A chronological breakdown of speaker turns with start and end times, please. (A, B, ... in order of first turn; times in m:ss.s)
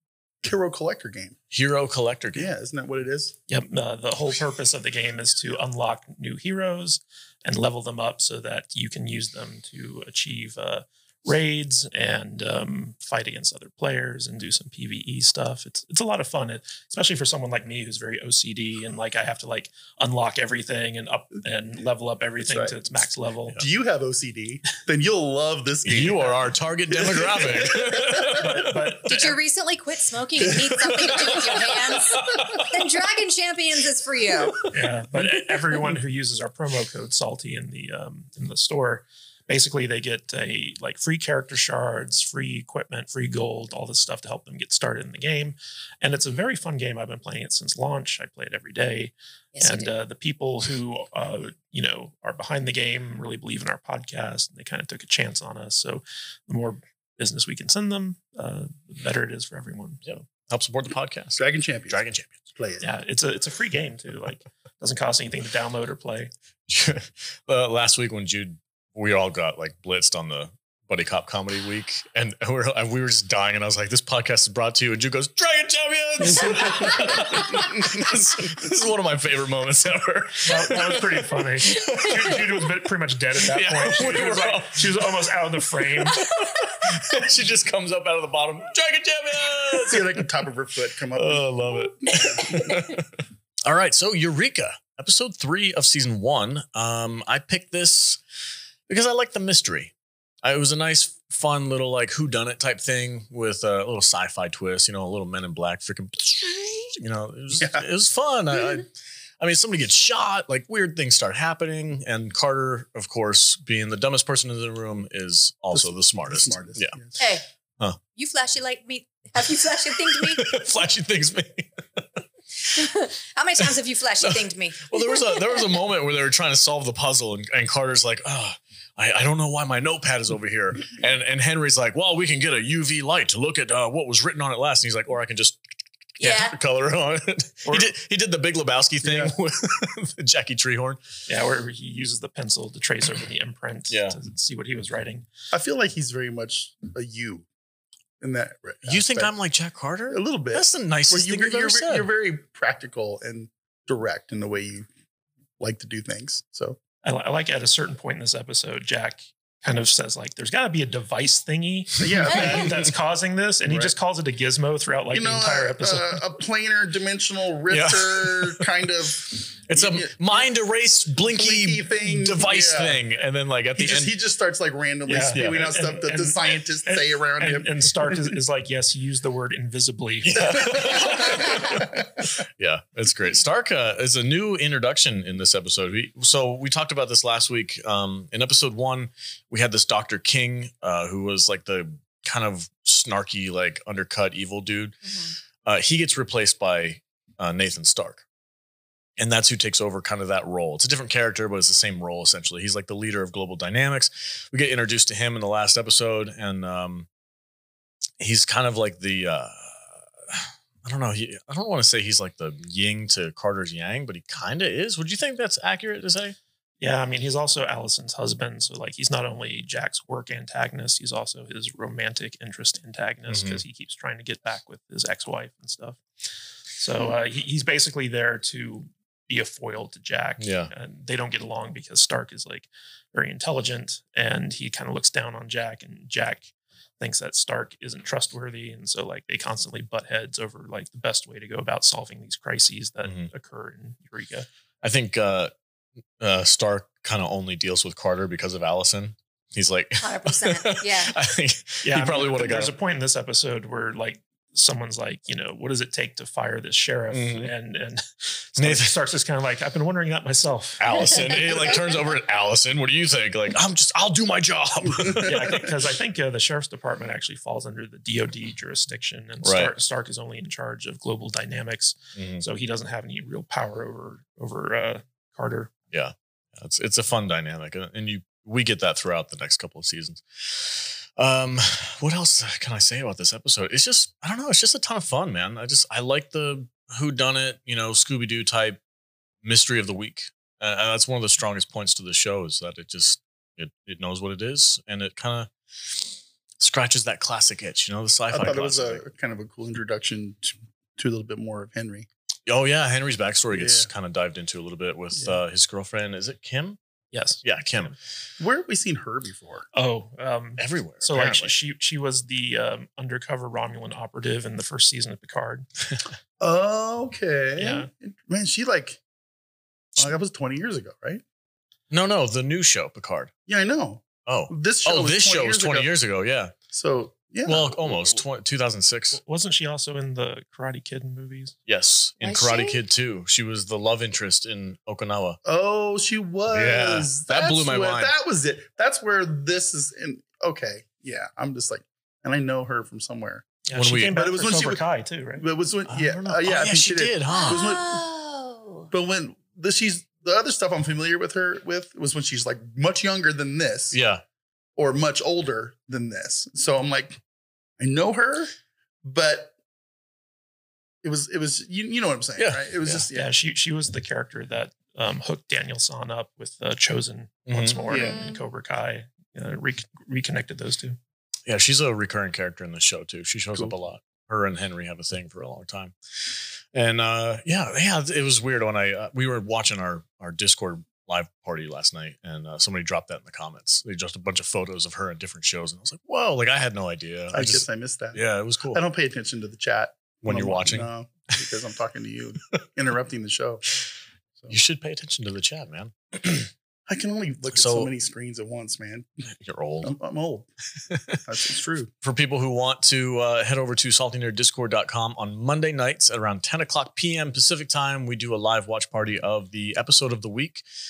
0:00.4-0:01.4 A
0:01.5-0:02.5 B
0:02.3-0:03.3 A
0:03.5-0:23.6 C
0:22.4-0:22.8 A
0:23.6-0:26.5 A
0:25.8-0:28.5 B
0:27.1-0:28.2 A
0:28.4-0:29.4 C
0:29.1-0:34.6 D
0:30.8-0:32.6 B
0:34.7-1:00.2 C
0:49.5-0:49.9 D
1:00.0-1:02.3 B
1:01.4-1:02.9 A
1:02.8-1:06.3 C
1:06.7-1:22.5 B
1:20.4-1:26.2 C
1:23.5-1:25.0 B
1:26.0-1:30.2 B
1:29.8-1:32.3 A
1:31.1-1:33.0 B
1:33.6-1:38.2 B
1:38.9-1:48.9 B
1:47.6-1:47.8 A
1:49.4-1:57.0 B
1:55.7-1:57.2 A
1:57.2-1:57.4 D
1:58.1-2:00.4 D
2:00.1-2:02.2 B
2:02.7-2:05.3 D
2:04.2-2:15.6 B
2:16.2-2:21.0 B
2:16.2-2:16.6 D
2:17.6-2:17.9 C
2:19.0-2:19.3 A
2:21.3-2:25.3 C
2:23.9-2:24.2 B
2:25.5-2:27.4 A
2:28.2-2:29.3 A
2:28.8-2:32.1 B
2:30.1-2:34.9 A
2:35.6-2:36.8 A
2:37.0-2:46.2 C
2:42.0-2:42.5 A
2:42.2-2:42.8 B
2:43.7-2:43.9 A
2:45.1-2:50.5 A
2:47.7-2:48.7 B
2:49.3-2:54.1 B
2:51.2-2:53.0 A
2:53.8-2:58.3 A
2:55.1-3:00.8 C
2:55.3-2:55.7 B
3:00.2-3:15.0 B
3:15.0-3:15.3 D
3:15.6-3:18.2 B
3:19.2-3:27.1 B
3:28.2-3:36.4 B
3:36.8-3:46.0 C
3:43.3-3:43.6 B
3:46.8-4:04.4 C
3:50.4-3:50.7 B
4:03.0-4:03.3 B
4:04.8-4:05.5 B
4:06.2-4:12.7 B
4:10.0-4:11.2 D
4:11.8-4:21.2 C
4:17.1-4:17.5 B
4:18.6-4:18.9 B
4:20.8-4:25.7 B
4:25.0-4:25.6 A
4:25.2-4:35.7 C
4:29.4-4:29.7 B
4:32.1-4:32.4 B
4:35.9-4:48.8 B
4:49.4-4:59.0 B
4:58.3-5:02.1 A
5:02.4-5:06.8 B
5:03.5-5:03.9 A
5:07.1-5:07.9 C
5:07.4-5:07.9 B
5:08.4-5:09.6 A
5:09.7-5:15.7 C
5:10.6-5:11.5 B
5:16.4-5:19.0 A
5:17.6-5:17.9 C
5:20.0-5:21.2 A
5:21.9-5:23.3 B
5:23.5-5:25.9 A
5:24.2-5:26.5 B
5:26.7-5:27.7 A
5:27.4-5:29.2 B
5:27.9-5:28.2 C
5:29.1-5:31.5 C
5:31.7-5:35.4 B
5:32.2-5:32.8 D
5:35.4-5:43.4 A
5:36.5-5:38.1 B
5:43.7-5:45.4 C
5:43.7-5:44.1 B
5:44.1-5:48.1 A
5:45.9-5:47.6 B
5:47.3-5:48.9 D
5:48.9-5:54.0 A
5:53.9-5:54.2 B
5:54.8-5:57.2 A
5:57.8-5:58.5 A
5:59.0-5:59.5 A
6:01.0-6:03.3 A
6:02.4-6:03.0 B
6:03.1-6:11.0 C
6:07.5-6:07.9 B
6:07.9-6:08.2 A
6:08.1-6:08.4 D
6:11.5-6:28.8 B
6:27.3-6:33.6 A
6:30.2-6:30.9 B
6:34.5-6:36.5 B
6:36.9-6:39.0 A
6:37.5-6:37.9 B
6:39.4-6:39.9 B
6:39.8-6:40.5 A
6:40.9-6:41.2 B
6:41.2-6:41.9 A
6:42.0-6:50.6 B